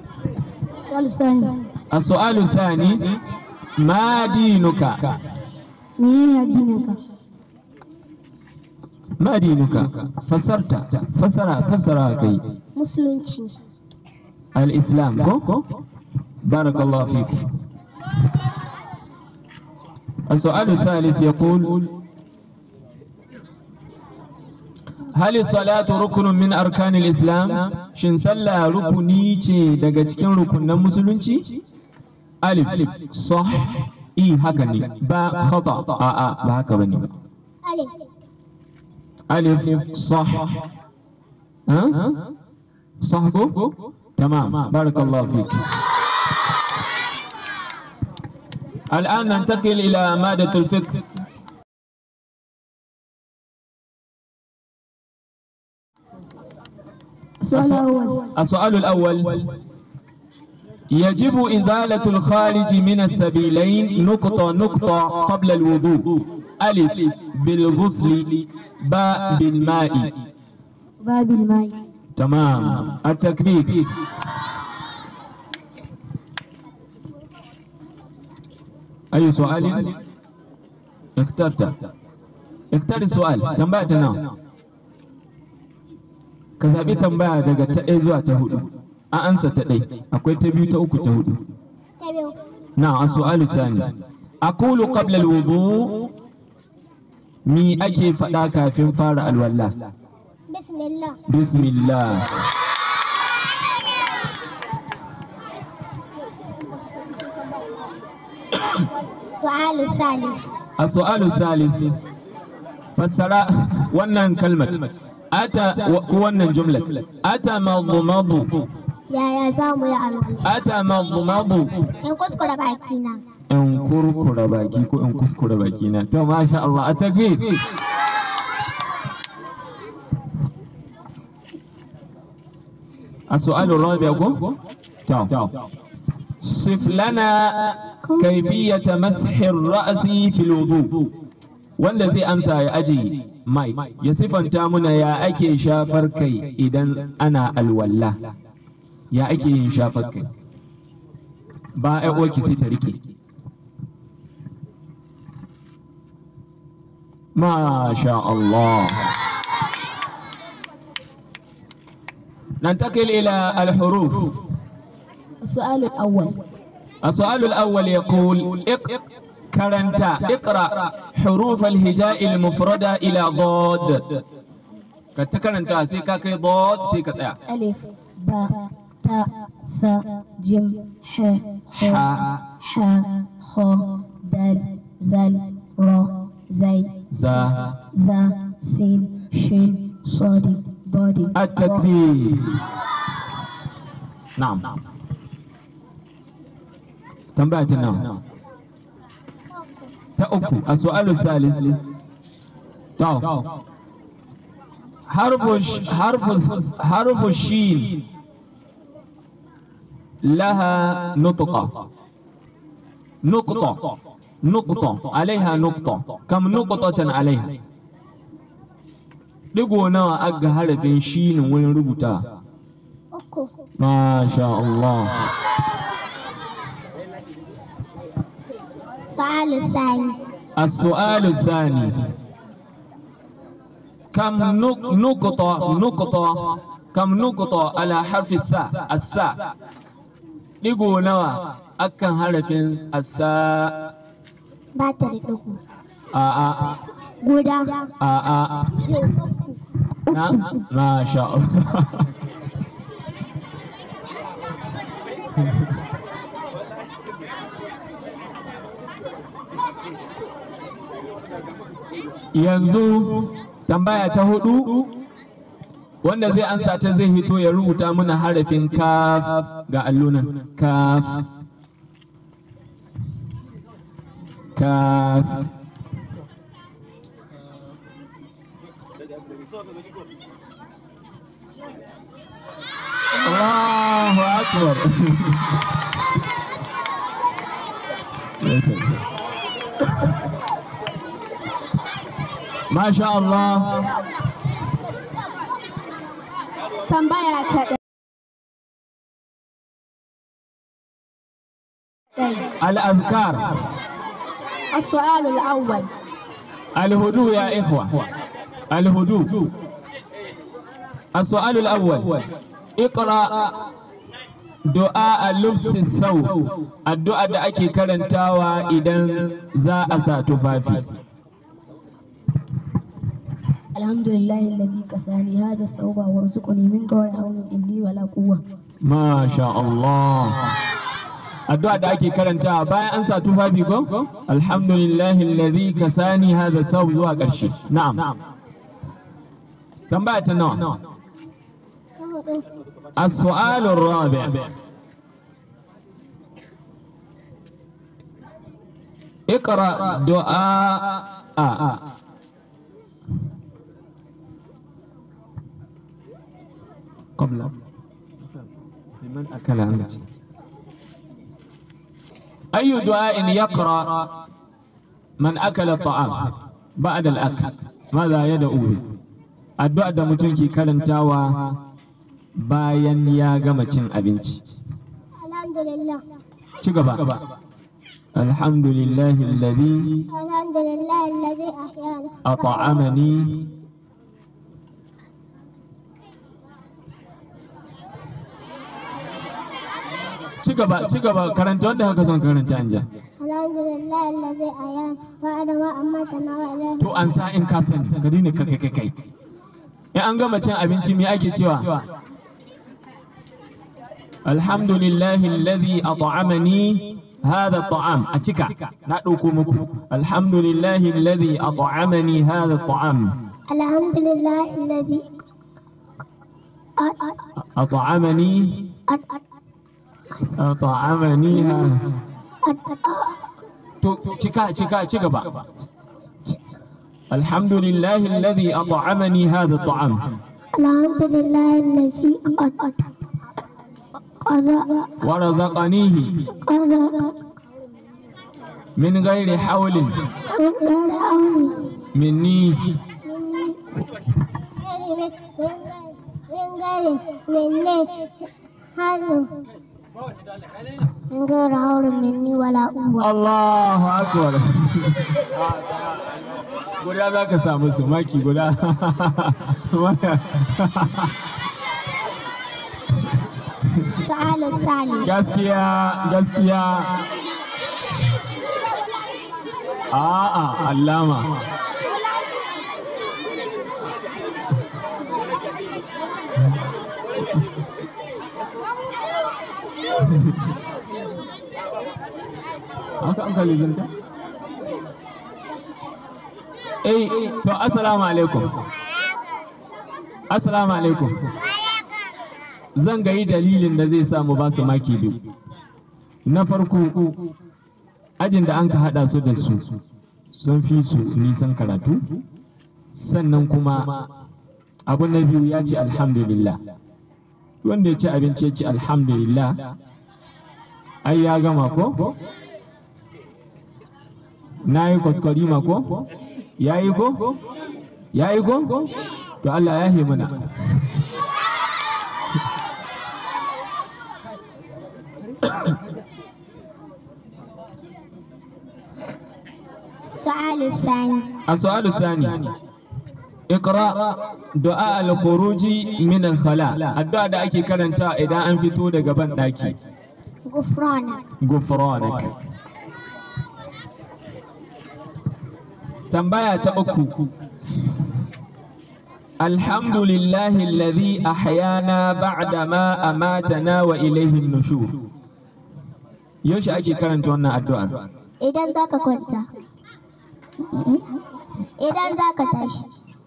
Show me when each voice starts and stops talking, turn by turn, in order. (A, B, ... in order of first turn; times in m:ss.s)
0:00.8-0:01.6 A
0:01.9-0:03.2 B
0:03.8-0:05.2 B
0:06.0-0:07.0 A
0:09.2-0:12.4 B
0:12.8-0:13.6 C
0:14.5-0:15.7 B
0:16.4-0:17.5 B
0:20.3-0:21.9 B
0:25.1-0:31.5 B
0:32.4-0:37.1 B
0:37.6-0:38.0 C
0:39.3-0:40.7 B
0:41.7-0:42.2 B
0:43.0-0:45.6 B
0:48.9-0:51.0 B
0:57.4-0:58.3 A
0:57.5-0:59.5 B
1:00.9-1:10.1 B
1:11.0-1:11.8 A
1:12.2-1:13.9 B
1:19.1-1:20.0 B
1:21.2-1:21.8 B
1:22.7-1:24.3 B
1:26.6-1:31.4 B
1:32.0-1:32.4 C
1:32.8-1:36.1 B
1:37.4-1:39.8 B
1:40.5-1:41.2 C
1:41.3-1:42.3 B
1:49.3-1:50.7 C
1:50.8-1:52.0 B
1:53.0-1:58.7 B
1:59.1-2:00.5 C
2:00.4-2:01.9 B
2:02.0-2:03.2 C
2:03.5-2:07.6 B
2:13.3-2:15.5 B
2:16.4-2:21.1 B
2:21.8-2:28.2 B
2:29.1-2:30.3 B
2:31.8-2:33.1 B
2:37.3-2:39.1 B
2:42.6-2:44.4 B
2:45.4-2:46.4 A
2:47.0-2:54.2 B
2:55.1-2:57.4 B
2:57.5-3:07.0 A
3:01.7-3:02.4 B
3:07.1-3:07.7 B
3:07.9-3:11.9 A
3:11.3-3:12.6 B
3:14.4-3:14.7 B
3:17.4-3:18.2 B
3:20.2-3:21.8 B
3:23.0-3:23.4 B
3:25.1-3:28.0 B
3:30.2-3:31.8 B
3:33.2-3:37.6 B
3:39.5-3:42.2 B
3:43.1-3:43.5 C
3:43.8-3:45.3 B
3:49.0-3:50.2 C
3:50.6-3:52.1 B
3:54.1-3:59.5 B
4:00.6-4:03.9 B
4:04.7-4:05.6 C
4:06.1-4:06.8 B
4:07.2-4:07.9 C
4:08.0-4:08.8 B
4:08.9-4:09.5 C
4:10.1-4:12.1 B
4:10.1-4:10.4 A
4:22.3-4:24.9 B
4:26.0-4:31.3 B
4:34.5-4:35.5 B
4:43.2-4:45.5 B
4:48.4-4:49.0 B
4:52.7-4:53.9 B
4:56.9-4:57.8 A
5:02.2-5:02.5 A
5:02.6-5:03.5 B
5:04.7-5:05.9 A
5:06.7-5:08.1 B
5:08.7-5:09.5 B
5:11.1-5:12.2 B
5:12.8-5:13.6 B
5:14.7-5:21.0 B
5:23.7-5:28.4 A
5:28.8-5:30.5 B
5:31.5-5:38.1 B
5:39.9-5:40.8 B
5:42.0-5:42.4 C
5:43.0-5:44.5 B
5:49.3-5:51.8 B
5:57.2-5:57.5 B
5:59.0-6:00.0 B
6:02.5-6:04.1 B
6:05.2-6:08.8 B
6:09.6-6:11.6 B
6:12.4-6:14.4 B
6:15.2-6:16.0 C
6:16.6-6:17.2 B
6:18.1-6:20.0 B
6:20.1-6:22.2 C
6:22.2-6:23.5 B
6:30.4-6:32.9 B
6:33.2-6:37.1 C
6:36.8-6:38.9 B
6:39.9-6:41.8 B
6:44.2-6:53.1 B
6:53.5-6:55.1 C
6:56.8-6:57.2 C
6:57.6-6:58.7 B
6:58.9-6:59.2 C
7:00.3-7:02.0 B
7:02.4-7:03.2 C
7:03.8-7:05.5 B
7:07.1-7:10.1 B
7:10.5-7:12.9 C
7:14.2-7:14.9 C
7:15.0-7:16.3 B
7:16.4-7:17.2 C
7:18.8-7:20.0 B
7:20.3-7:21.8 C
7:21.9-7:22.8 B
7:23.0-7:23.7 C
7:24.5-7:28.1 C
7:28.7-7:29.4 C
7:31.1-7:33.1 C
7:33.0-7:35.8 B
7:36.8-7:41.1 B
7:44.0-7:45.2 C
7:45.0-7:47.0 B
7:49.9-7:51.4 B
8:03.0-8:03.9 B
8:06.8-8:08.6 B
8:10.3-8:11.3 B
8:12.7-8:15.2 B
8:16.2-8:17.2 B
8:18.2-8:19.8 B
8:20.3-8:22.0 B
8:22.9-8:24.0 B
8:24.9-8:26.6 B
8:27.6-8:29.7 B
8:31.0-8:32.2 B
8:34.6-8:36.1 B
8:36.6-8:37.4 B
8:38.1-8:40.5 B
8:50.0-8:51.3 C
8:51.5-8:52.5 B
8:53.5-8:59.8 B
9:00.5-9:01.2 C
9:01.4-9:02.3 B
9:06.1-9:07.3 B
9:09.4-9:15.0 B
9:16.4-9:18.1 B
9:18.4-9:19.4 C
9:20.7-9:21.0 C
9:21.8-9:22.9 C